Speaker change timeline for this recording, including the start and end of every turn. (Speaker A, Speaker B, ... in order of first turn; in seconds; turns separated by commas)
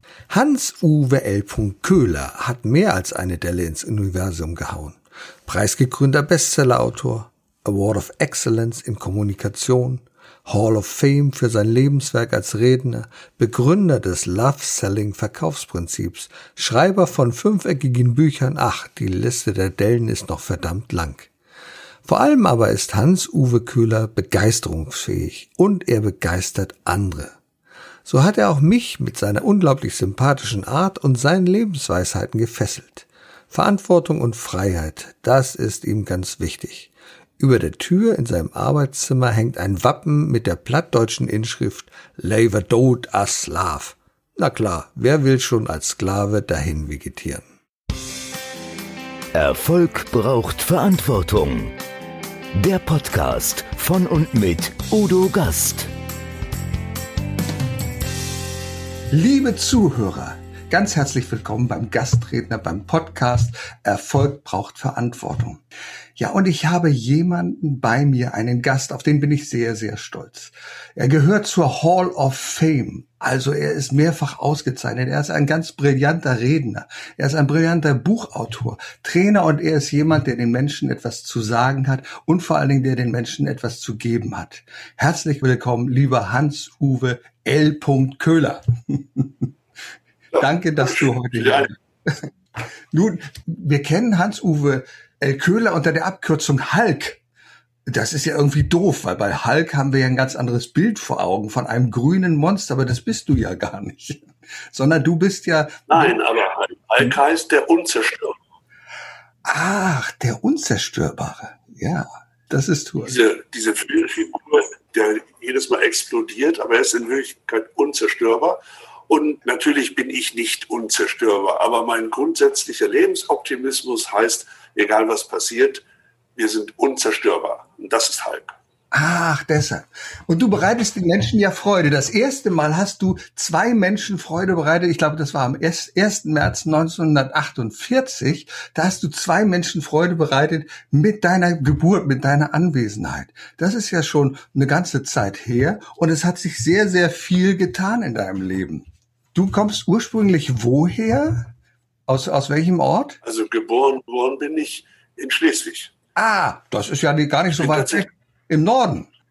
Speaker A: 0.3-21.3, Speaker A: 22.1-27.4, Speaker A: 28.1-47.5, Speaker B: 49.3-51.8, Speaker B: 52.5-55.9, Speaker A: 59.1-65.6, Speaker A: 66.2-89.5, Speaker C: 90.3-91.7, Speaker A: 90.4-92.3, Speaker A: 92.9-97.2, Speaker A: 97.9-106.2, Speaker C: 105.9-108.4, Speaker A: 109.5-113.2, Speaker C: 113.0-125.8, Speaker C: 126.4-128.6, Speaker A: 128.9-151.5, Speaker A: 152.1-153.2, Speaker C: 153.2-155.9, Speaker A: 156.2-159.1, Speaker C: 157.6-158.1